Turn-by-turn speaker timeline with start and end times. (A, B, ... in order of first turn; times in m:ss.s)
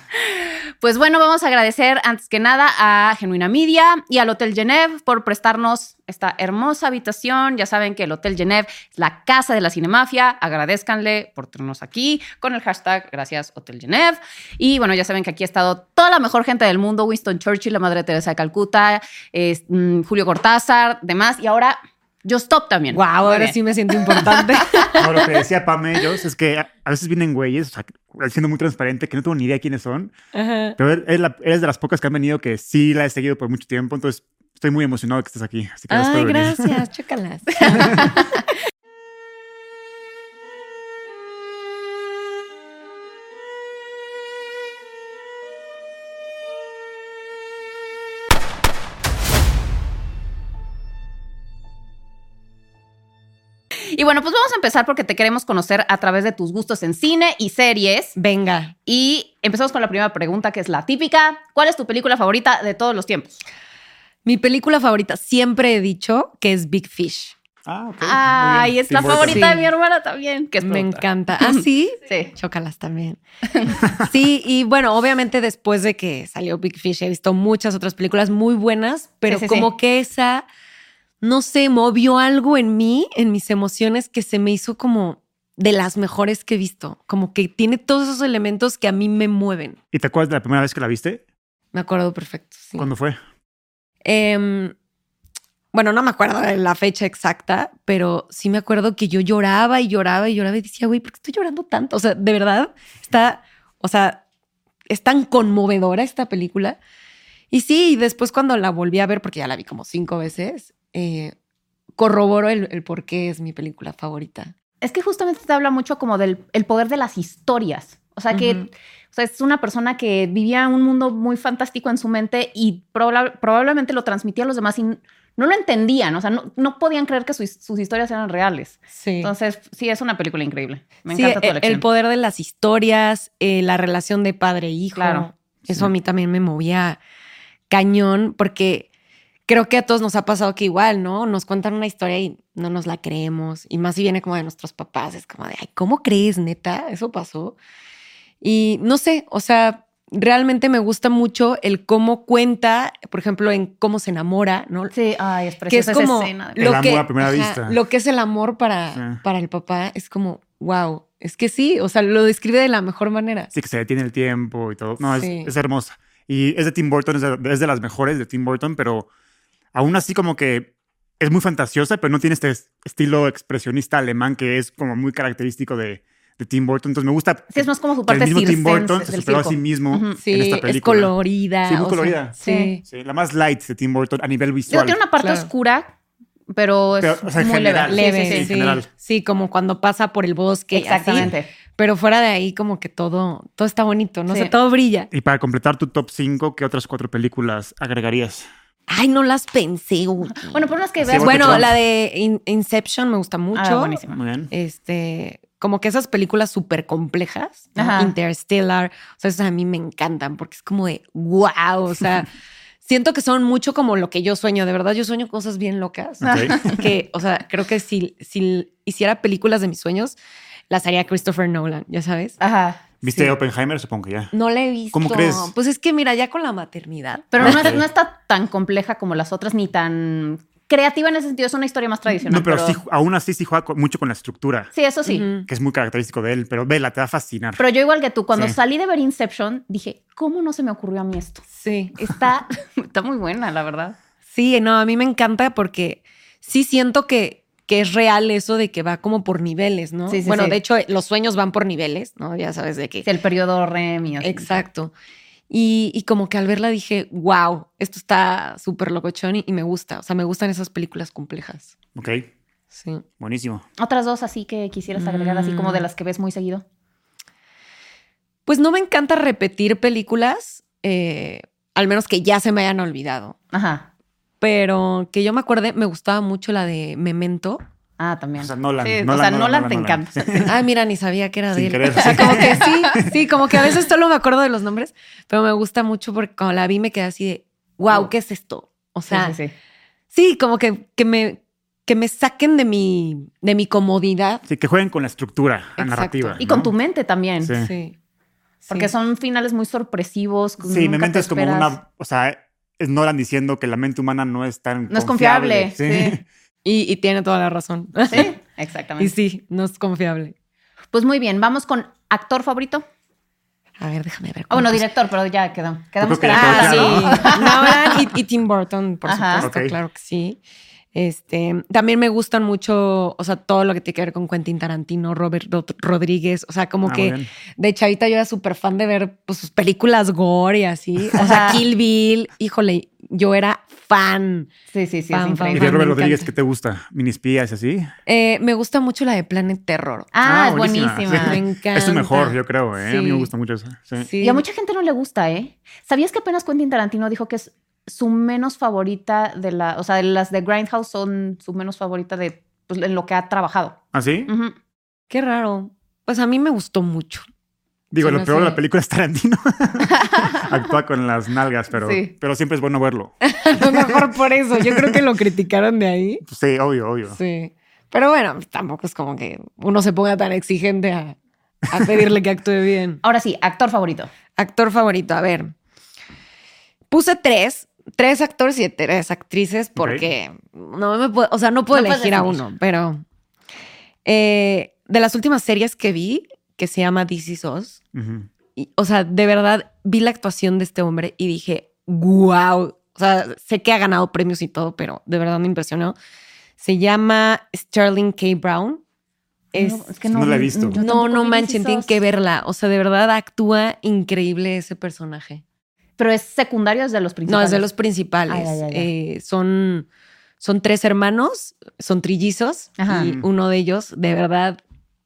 0:00.1-0:25.0 A
0:22.9-0:25.1 B
0:25.0-0:30.1 C
0:30.3-0:30.8 B
0:30.8-0:36.7 C
0:35.9-0:38.4 B
0:37.7-0:38.4 A
0:53.9-0:58.2 A
0:58.2-0:58.7 B
0:58.8-1:03.4 A
1:04.2-1:07.3 B
1:07.7-1:09.5 C
1:08.0-1:12.3 A
1:09.1-1:09.7 B
1:10.6-1:13.2 B
1:13.5-1:13.8 A
1:13.8-1:14.1 C
1:14.0-1:20.4 B
1:19.3-1:19.7 A
1:21.2-1:29.8 B
1:29.9-1:31.2 C
1:31.7-1:32.9 B
1:32.8-1:33.2 C
1:34.0-1:34.7 B
1:35.7-1:44.2 B
1:44.9-1:46.8 B
1:47.5-1:51.3 B
1:52.0-1:54.5 B
1:54.8-2:11.8 A
1:58.3-1:58.7 B
2:08.9-2:09.3 B
2:11.1-2:17.0 B
2:15.0-2:15.3 A
2:17.7-2:18.9 B
2:19.5-2:27.6 B
2:28.4-2:34.9 B
2:34.9-2:36.7 A
2:35.7-2:43.5 B
2:36.6-2:37.8 C
2:38.9-2:39.2 C
2:43.5-2:49.1 C
2:45.0-2:45.5 B
2:49.7-3:01.1 C
2:57.5-3:00.2 A
3:00.2-3:02.8 B
3:01.6-3:02.3 C
3:02.4-3:02.7 A
3:02.8-3:05.0 C
3:04.7-3:05.9 A
3:05.2-3:05.5 B
3:06.5-3:08.6 A
3:07.0-3:08.9 C
3:07.9-3:15.1 B
3:10.7-3:11.5 A
3:15.1-3:18.5 C
3:18.9-3:32.3 B
3:20.3-3:21.7 A
3:21.0-3:21.8 C
3:23.6-3:24.2 A
3:24.1-3:24.5 C
3:27.8-3:28.1 A
3:32.8-3:40.2 B
3:36.2-3:36.7 C
3:36.2-3:36.8 A
3:40.7-3:42.4 B
3:42.4-3:43.3 A
3:43.0-3:44.3 C
3:44.3-3:47.7 B
3:44.9-3:45.5 C
3:47.3-3:52.8 A
3:47.4-3:47.8 C
3:52.3-3:54.7 C
3:54.7-3:55.3 A
3:55.1-3:55.5 B
3:55.5-3:57.6 C
3:57.6-4:01.4 A
4:01.5-4:02.2 B
4:02.0-4:04.0 A
4:04.3-4:13.1 B
4:10.1-4:10.6 A
4:13.0-4:14.6 A
4:14.2-4:14.9 B
4:15.5-4:21.7 B
4:21.9-4:22.3 C
4:22.7-4:23.0 B
4:23.2-4:23.6 C
4:23.8-4:26.6 A
4:25.0-4:25.9 B
4:28.4-4:33.4 B
4:33.5-4:33.9 A
4:34.4-4:37.6 B
4:38.0-4:40.1 A
4:38.4-4:40.6 C
4:40.4-4:49.4 B
4:41.5-4:43.1 C
4:42.0-4:43.0 A
4:49.1-4:49.5 A
4:50.1-4:54.4 B
4:54.4-4:56.7 C
4:55.8-4:56.4 B
4:56.4-4:57.5 A
4:57.4-4:57.7 C
4:57.5-4:57.9 B
4:58.7-5:01.8 A
5:00.6-5:06.2 C
5:04.9-5:06.2 A
5:06.6-5:08.3 B
5:08.0-5:09.1 A
5:09.0-5:10.3 B
5:10.9-5:12.8 A
5:13.8-5:14.9 B
5:14.5-5:18.0 A
5:16.0-5:17.3 C
5:16.3-5:20.4 B
5:19.0-5:19.5 A
5:19.4-5:19.8 C
5:20.9-5:34.5 B
5:26.8-5:27.3 C
5:31.2-5:31.6 A
5:34.7-5:35.8 A
5:35.1-5:36.3 B
5:35.5-5:37.9 C
5:38.1-5:40.1 B
5:40.1-5:41.4 A
5:40.2-5:44.1 C
5:41.1-5:42.3 B
5:42.8-5:43.3 A
5:44.0-5:44.4 B
5:44.2-5:54.6 A
5:53.9-5:54.3 C
5:55.1-5:57.2 B
5:57.9-6:05.0 C
5:58.0-5:58.6 B
5:59.9-6:00.6 A
6:01.8-6:02.1 A
6:03.2-6:06.2 B
6:06.2-6:07.2 C
6:07.1-6:11.2 B
6:11.7-6:13.0 B
6:13.0-6:14.1 A
6:14.4-6:15.5 B
6:16.9-6:23.0 B
6:19.8-6:20.1 C
6:21.7-6:22.4 A
6:24.0-6:27.8 B
6:27.9-6:28.3 C
6:28.6-6:35.9 B
6:36.6-6:38.8 B
6:39.5-6:42.0 A
6:39.6-6:39.9 B
6:40.1-6:40.8 C
6:40.7-6:45.4 B
6:46.0-6:47.7 A
6:47.3-6:49.9 B
6:48.3-6:48.9 A
6:50.4-6:54.6 B
6:52.8-6:53.1 A
6:52.9-6:53.3 C